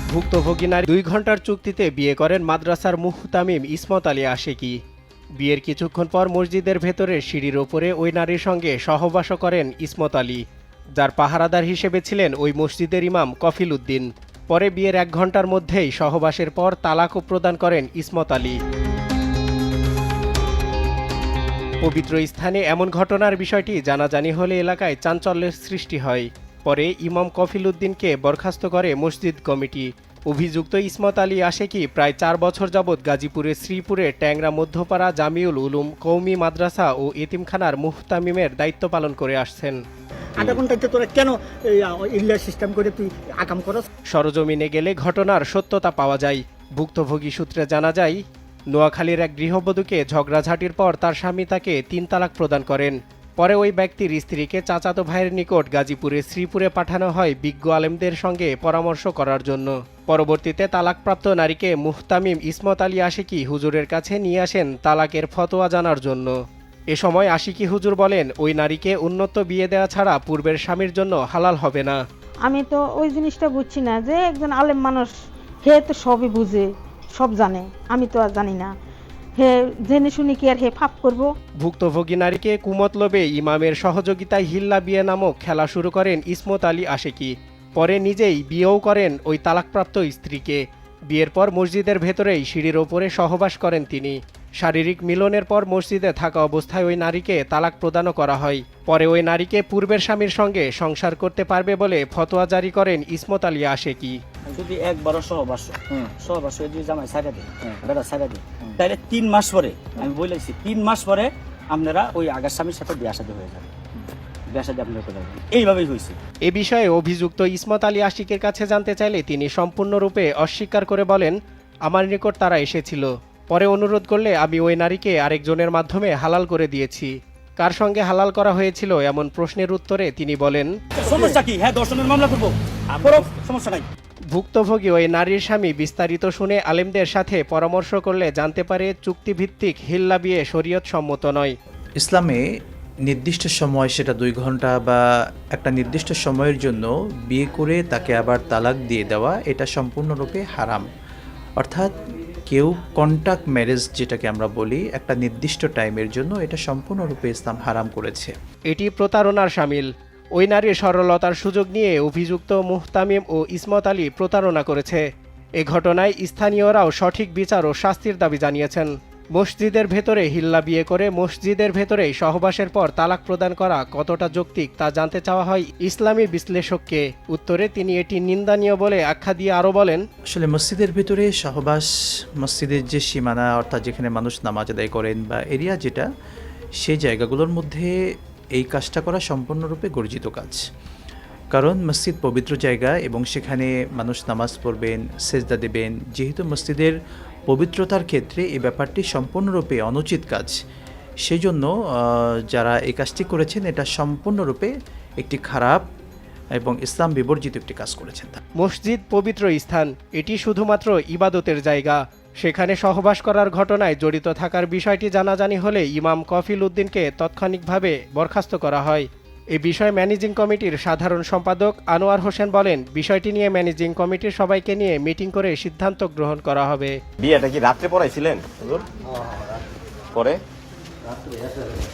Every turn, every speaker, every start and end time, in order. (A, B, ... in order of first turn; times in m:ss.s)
0:00.1-0:04.8 A
0:05.4-0:10.4 A
0:11.0-0:18.6 A
0:21.8-0:39.8 A
0:40.4-0:43.9 B
0:44.1-0:48.2 A
0:48.7-1:06.4 A
1:06.9-1:12.0 A
1:12.4-1:15.1 C
1:15.6-1:18.7 C
1:19.4-1:21.3 C
1:21.6-1:44.2 A
1:44.5-1:53.7 D
1:54.5-1:56.2 D
1:56.4-2:01.4 A
2:01.9-2:10.7 A
2:11.0-2:13.8 D
2:14.3-2:21.6 A
2:22.0-2:22.4 E
2:23.1-2:25.0 E
2:25.5-2:30.9 E
2:31.6-2:31.9 E
2:32.5-2:38.3 E
2:38.7-2:45.0 A
2:45.6-3:00.0 A
3:00.3-3:01.9 E
3:02.4-3:06.1 E
3:06.8-3:07.9 E
3:08.6-3:10.6 E
3:11.5-3:17.0 E
3:17.5-3:20.6 E
3:21.3-3:25.8 E
3:26.6-3:28.4 E
3:28.6-3:47.0 A
3:47.2-3:48.9 F
3:50.2-3:50.4 F